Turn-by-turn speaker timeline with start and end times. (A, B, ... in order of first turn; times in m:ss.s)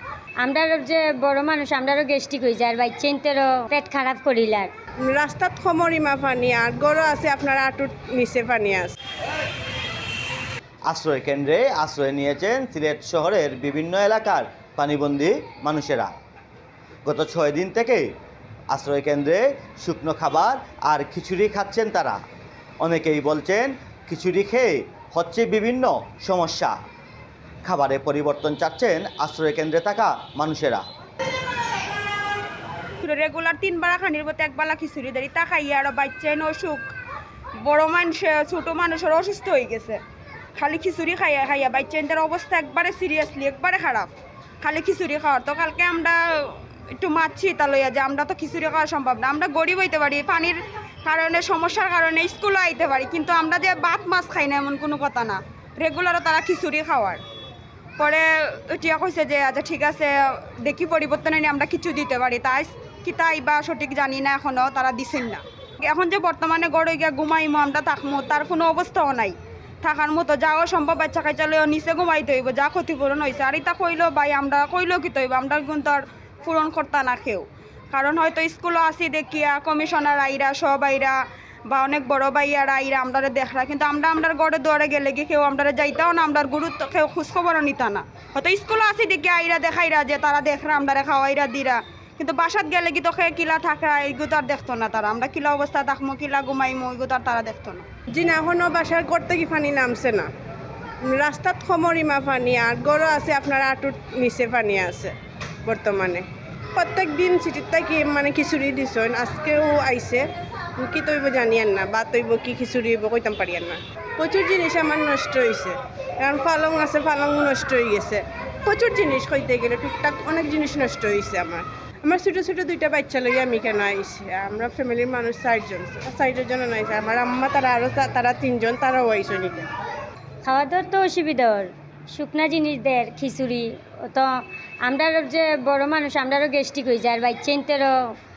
0:00.4-0:04.7 A
0:05.0-0:08.9 B
0:10.9-0:16.1 C
0:17.0-0:18.1 C
0:18.7-0:22.2 C
0:22.8-0:26.7 C
0:27.6-0:30.8 C
0:33.0-0:36.8 D
0:37.6-0:40.0 D
0:40.6-0:44.1 D
0:44.6-0:57.2 D
0:58.0-1:21.2 D
1:21.7-1:37.8 D
1:38.1-1:40.3 B
1:41.0-1:45.1 B
1:45.7-1:46.2 B
1:46.8-1:50.2 B
1:50.8-2:09.7 B
2:10.4-2:14.3 A
2:14.8-2:17.9 A